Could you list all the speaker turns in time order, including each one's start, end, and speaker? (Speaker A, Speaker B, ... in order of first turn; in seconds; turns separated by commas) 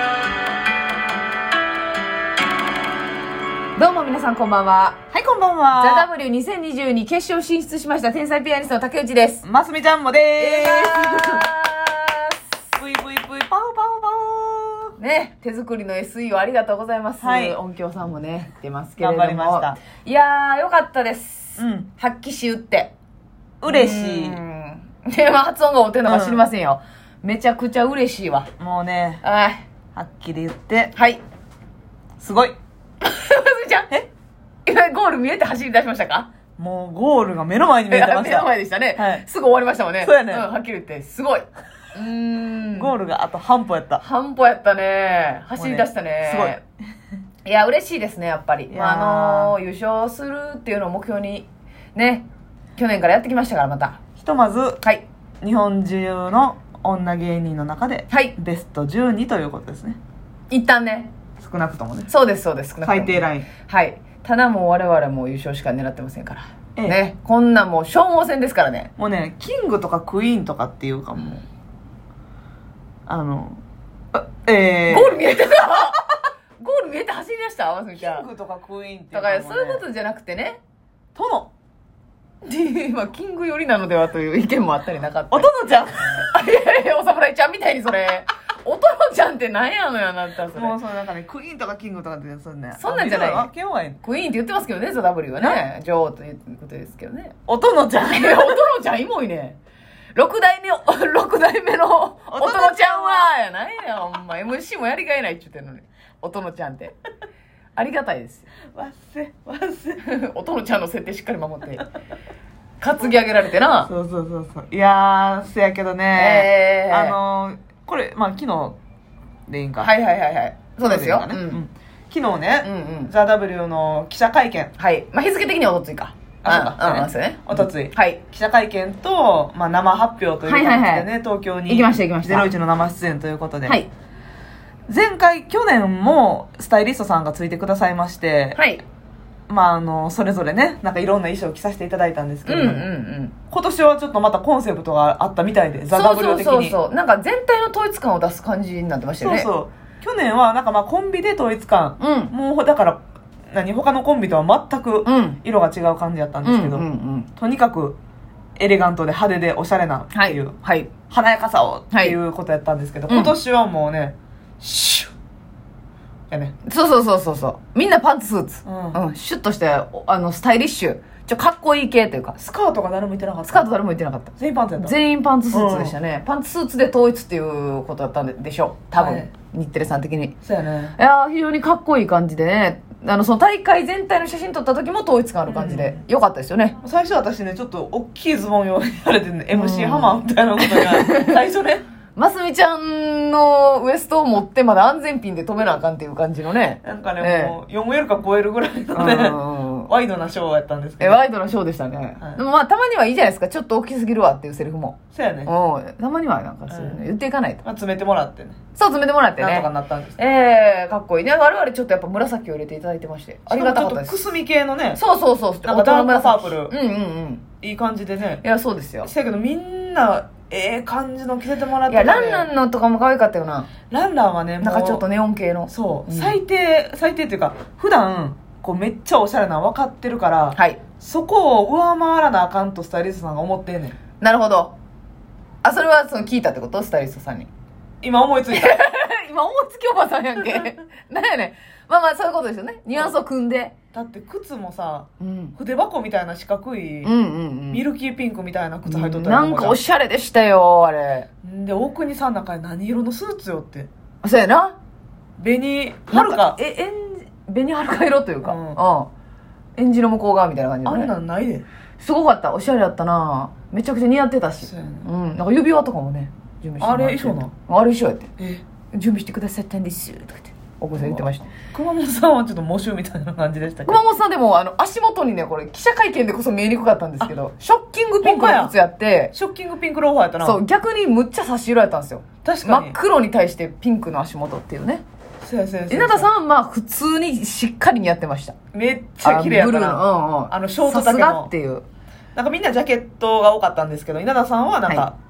Speaker A: 3.8-5.0, Speaker B: 5.1-6.1, Speaker A: 5.7-9.4, Speaker B: 9.4-11.4, Speaker A: 10.4-12.3, Speaker B: 12.8-14.9, Speaker A: 15.0-22.9, Speaker B: 17.2-17.6, Speaker B: 19.0-19.8, Speaker B: 21.6-21.9, Speaker B: 23.6-24.4, Speaker A: 23.6-28.5, Speaker B: 26.1-26.4, Speaker B: 28.6-29.2, Speaker A: 29.2-29.6, Speaker B: 29.9-30.9, Speaker A: 30.9-31.2, Speaker B: 32.2-32.5, Speaker A: 33.0-34.0, Speaker A: 34.6-36.3, Speaker B: 36.6-39.2, Speaker A: 37.9-42.9, Speaker B: 40.0-40.5, Speaker B: 42.7-44.0, Speaker A: 44.0-46.6, Speaker B: 45.5-46.5, Speaker A: 47.4-52.2, Speaker B: 48.7-49.6, Speaker A: 52.8-54.0, Speaker B: 54.2-54.8, Speaker B: 55.4-60.0, Speaker A: 58.1-58.3, Speaker A: 60.5-61.1, Speaker B: 61.4-62.1, Speaker A: 62.1-68.9, Speaker B: 62.8-63.5, Speaker B: 69.0-71.4, Speaker B: 73.1-73.6, Speaker B: 74.1-75.3, Speaker A: 74.9-76.0, Speaker A: 76.6-78.3, Speaker B: 78.0-79.8, Speaker A: 79.1-80.6, Speaker B: 81.1-81.5, Speaker A: 82.4-90.8, Speaker B: 85.3-86.3, Speaker B: 90.5-94.0, Speaker A: 92.8-93.5, Speaker A: 94.0-97.4, Speaker B: 97.5-98.6, Speaker A: 98.0-99.6, Speaker A: 100.1-107.0, Speaker B: 102.3-103.3, Speaker A: 107.8-108.5, Speaker B: 108.7-110.0, Speaker A: 110.0-111.9, Speaker A: 112.8-113.9, Speaker B: 113.8-118.8, Speaker A: 116.1-117.2, Speaker B: 119.5-119.9, Speaker A: 119.8-121.6, Speaker B: 120.8-124.7, Speaker A: 122.6-123.1, Speaker A: 124.8-128.2, Speaker B: 126.4-133.8, Speaker A: 130.4-131.1, Speaker A: 131.7-132.5, Speaker B: 134.9-138.6, Speaker A: 138.5-138.8, Speaker B: 139.5-142.8, Speaker A: 142.4-143.3, Speaker B: 143.5-146.8, Speaker A: 145.9-149.5, Speaker B: 149.2-158.0, Speaker A: 152.0-152.3, Speaker A: 155.0-155.4, Speaker A: 156.4-157.3, Speaker B: 158.6-160.6, Speaker A: 160.1-160.9, Speaker B: 161.1-165.1, Speaker A: 163.1-163.3, Speaker A: 166.6-172.3, Speaker B: 168.6-169.0, Speaker B: 172.3-173.7, Speaker A: 173.4-180.3, Speaker B: 174.4-174.9, Speaker B: 175.5-175.9, Speaker B: 178.9-179.3, Speaker B: 180.4-180.9, Speaker A: 181.0-186.8, Speaker B: 185.5-186.0, Speaker B: 186.8-191.8, Speaker A: 189.5-191.4, Speaker A: 192.2-197.5, Speaker B: 196.8-201.2, Speaker A: 198.9-199.9, Speaker A: 201.0-207.6, Speaker B: 205.1-205.5, Speaker B: 206.7-207.0, Speaker B: 207.6-208.6, Speaker A: 208.8-214.2, Speaker B: 209.4-210.2, Speaker B: 213.5-215.0, Speaker A: 214.9-217.4, Speaker B: 215.6-216.7, Speaker B: 217.6-218.4, Speaker A: 218.4-219.1, Speaker B: 219.0-222.5, Speaker A: 221.9-223.7, Speaker B: 223.9-225.0, Speaker A: 224.6-226.3, Speaker B: 225.7-234.0, Speaker A: 230.5-230.8, Speaker A: 234.2-234.7, Speaker A: 235.6-237.5, Speaker B: 238.0-238.8, Speaker A: 238.5-243.7, Speaker B: 243.9-247.1, Speaker A: 245.2-245.6, Speaker A: 247.0-247.8, Speaker B: 247.7-249.8, Speaker A: 248.8-251.3, Speaker B: 251.4-253.9, Speaker A: 254.2-254.8, Speaker B: 255.4-256.6, Speaker A: 256.1-259.1, Speaker B: 258.4-258.8, Speaker A: 259.8-261.1, Speaker B: 260.8-261.6, Speaker A: 262.0-268.3, Speaker B: 264.6-265.1, Speaker B: 266.8-267.5, Speaker A: 268.9-271.4, Speaker B: 271.0-274.0, Speaker A: 273.9-279.3, Speaker B: 278.2-278.7, Speaker B: 279.3-280.6, Speaker A: 280.4-285.0, Speaker B: 282.4-282.9, Speaker B: 285.4-286.3, Speaker A: 285.9-288.6, Speaker B: 288.7-291.5, Speaker A: 289.2-291.8, Speaker B: 292.3-295.1